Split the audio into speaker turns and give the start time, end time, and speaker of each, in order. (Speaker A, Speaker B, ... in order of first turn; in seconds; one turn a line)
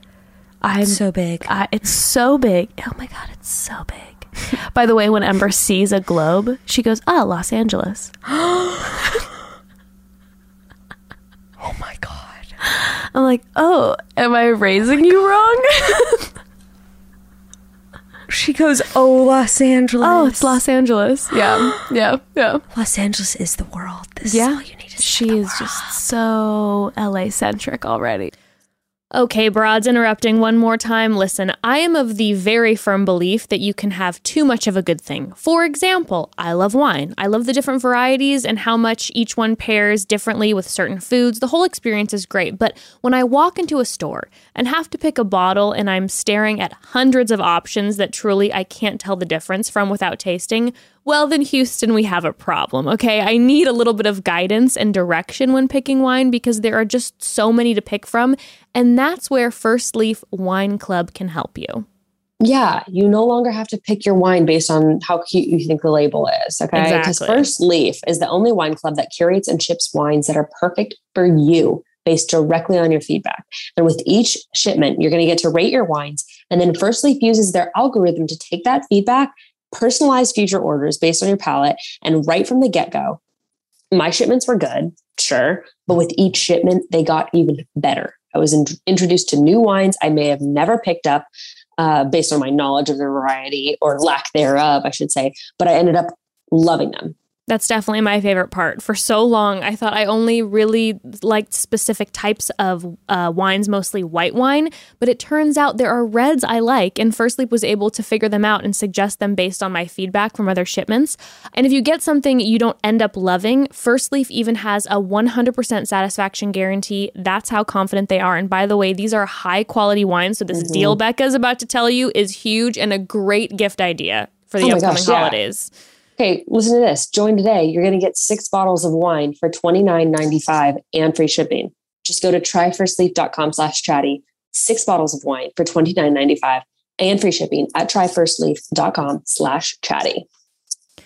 Speaker A: 0.6-8.1
Speaker B: 0.8-1.5
Speaker B: 8.3-9.2
Speaker B: 11.6-12.4
Speaker A: 12.6-16.3
Speaker B: 18.3-20.6
Speaker A: 20.0-22.6
Speaker B: 22.7-25.7
Speaker A: 24.2-28.3
Speaker C: 29.1-61.9
Speaker D: 62.4-83.2
Speaker C: 66.7-67.5
Speaker D: 83.9-91.3
Speaker D: 91.8-97.1
Speaker C: 97.5-125.7
Speaker D: 120.5-121.0
Speaker D: 124.6-125.4
Speaker D: 126.2-140.2